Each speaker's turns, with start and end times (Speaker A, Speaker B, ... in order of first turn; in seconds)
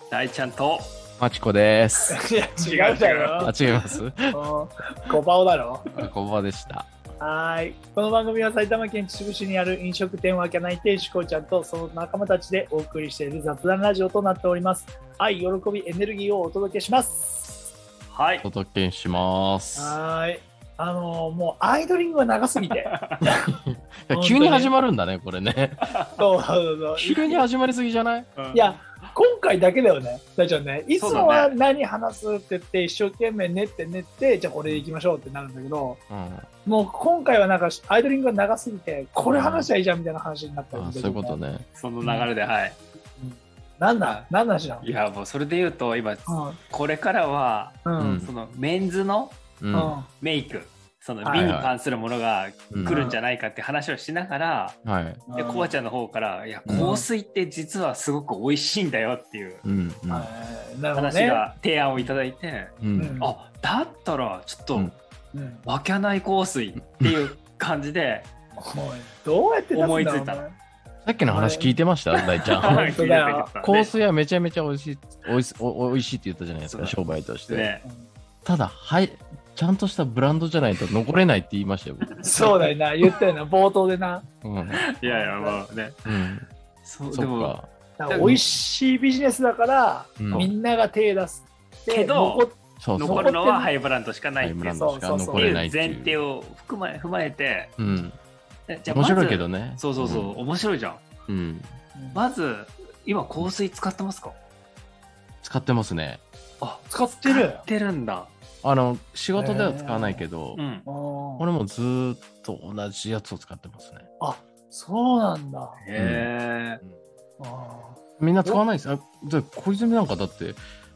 Speaker A: 0.1-0.9, 2.6-3.5, 18.1-18.5, 22.9-23.2, 25.8-26.2, 28.4-29.1, 31.0-31.6, 41.8-42.8, 44.0-44.3, 44.8-49.4, 50.1-54.8, 55.3-59.6, 60.9-65.0, 65.6-68.3, 69.7-70.4, 72.4-73.9, 76.6-77.8, 82.1-82.6, 84.7-86.0, 86.8-88.4, 91.9-94.8, 95.3-97.7, 98.7-101.0, 102.1-104.3, 106.6-108.3, 110.5-110.8, 115.8-116.8
Speaker B: 1.2-2.2, 3.4-4.4, 5.9-6.9, 18.4-20.0, 23.2-25.9, 27.0-28.3, 36.1-36.5, 39.2-39.7, 40.7-41.6, 48.0-48.3, 49.6-49.9, 51.3-51.7, 52.7-53.0, 54.8-55.2, 56.6-56.9, 59.6-60.3, 62.8-63.2, 67.0-67.2, 71.0-72.9, 73.6-77.7, 78.4-82.5, 84.4-84.8, 86.0-86.5, 87.1-87.7, 88.2-88.5, 90.2-90.5, 92.8-93.3, 94.4-96.2, 97.8-98.2, 98.9-100.3, 101.3-101.7, 105.4-106.2, 108.6-110.6, 111.4-114.0, 116.0-116.3, 118.2-120.6
Speaker C: 2.1-3.7, 4.3-5.8, 7.2-17.6, 19.7-22.9, 24.1-24.7, 26.2-27.4, 28.5-36.0, 36.6-41.4, 42.0-42.3, 43.2-44.9, 46.3-46.6, 47.8-48.2, 49.7-50.1, 51.2-51.5, 52.8-53.2, 55.3-55.7, 56.7-57.0, 60.1-61.5, 62.9-63.3, 65.3-65.7, 68.5-70.5, 71.3-73.5, 77.8-78.1, 82.2-84.2, 85.0-85.7, 88.0-93.7, 94.7-95.6, 102.0-102.2, 106.9-107.7, 109.3-110.2, 110.8-111.5, 114.2-115.8, 117.4-118.6